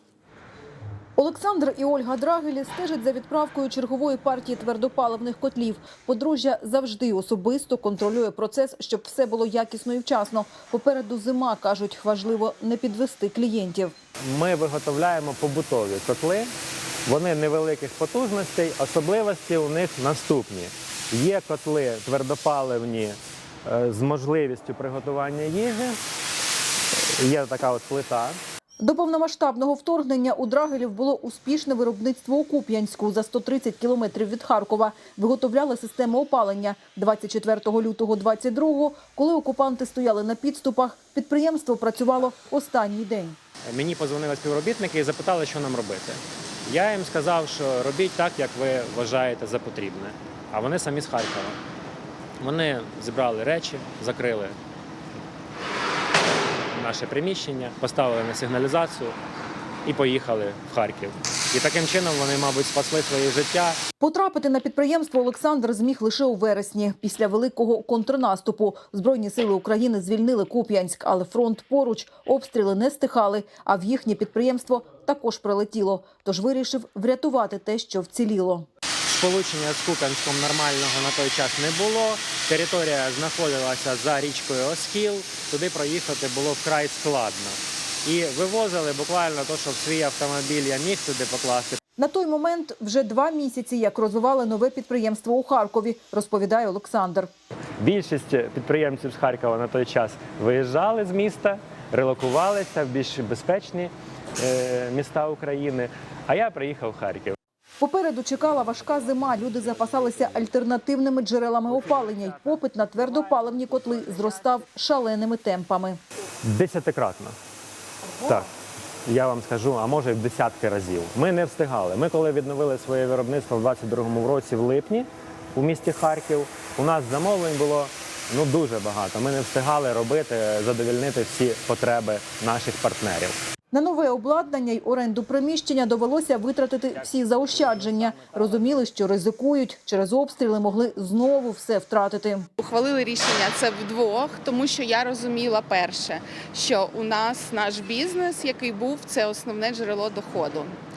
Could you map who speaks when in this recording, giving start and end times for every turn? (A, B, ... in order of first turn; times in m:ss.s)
0:01.2-0:13.9 A
0:14.2-0:16.5 B
0:17.1-0:26.0 B
0:26.9-0:28.4 B
0:28.8-0:43.4 A
0:43.7-0:51.6 B
0:52.4-0:54.6 B
0:56.7-0:59.2 B
0:59.8-1:03.8 B
1:04.0-1:18.7 A
1:19.1-1:31.8 B
1:32.0-1:37.3 A
1:37.8-1:47.4 B
1:47.8-1:56.0 A
1:51.9-1:52.3 B
1:53.2-1:53.7 B
1:56.4-1:57.4 B
1:58.2-1:58.5 B
1:59.1-2:13.4 B
2:13.7-2:22.5 A
2:17.4-2:18.3 B
2:22.6-2:30.7 C